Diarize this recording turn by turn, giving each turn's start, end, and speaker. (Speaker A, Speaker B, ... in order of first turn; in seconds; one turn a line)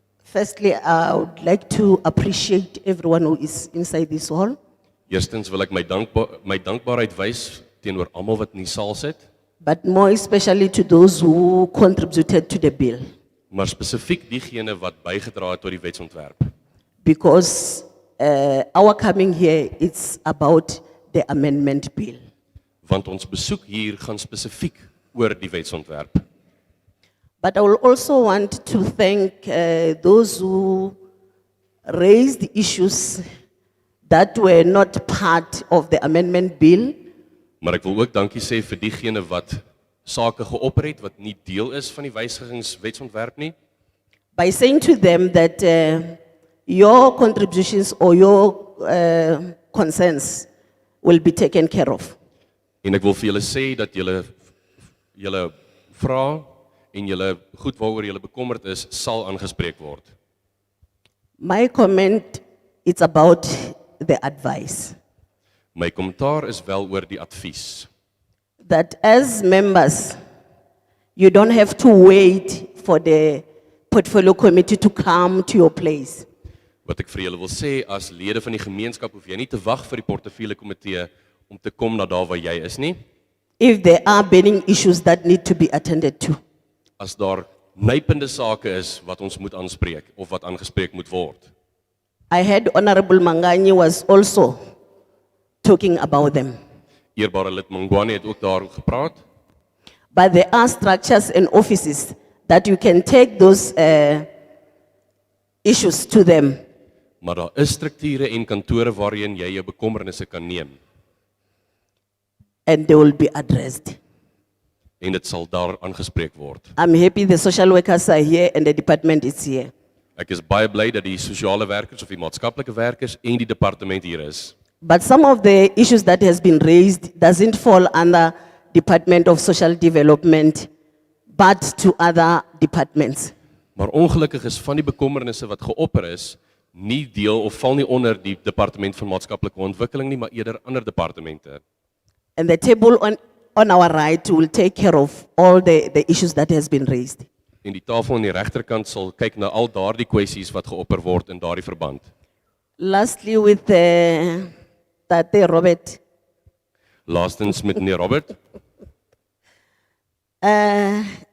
Speaker A: 0.3-4.6
Speaker B: 5.1-9.3
Speaker A: 9.6-13.0
Speaker B: 13.5-16.5
Speaker A: 17.0-22.2
Speaker B: 22.8-26.2
Speaker A: 27.4-31.0
Speaker A: 31.9-33.2
Speaker A: 34.1-37.0
Speaker B: 37.6-43.5
Speaker A: 44.4-50.5
Speaker A: 51.0-52.2
Speaker B: 52.8-54.4
Speaker B: 55.1-60.1
Speaker A: 61.4-65.0
Speaker B: 65.8-67.9
Speaker A: 68.6-70.2
Speaker A: 71.2-76.3
Speaker B: 76.9-83.0
Speaker A: 83.6-86.4
Speaker B: 87.0-91.5
Speaker A: 92.3-94.6
Speaker A: 95.6-96.6
Speaker B: 97.2-99.2
Speaker A: 100.1-104.3
Speaker A: 105.6-106.6
Speaker B: 107.2-110.8
Speaker A: 112.7-114.0
Speaker B: 115.0-116.7
Speaker A: 116.8-119.7
Speaker B: 120.2-124.5
Speaker A: 124.8-130.7
Speaker A: 131.3-133.3
Speaker B: 133.8-141.6
Speaker A: 142.4-147.3
Speaker B: 147.6-152.1
Speaker A: 152.8-154.5
Speaker A: 155.1-156.0
Speaker B: 157.1-158.4
Speaker A: 160.4-161.1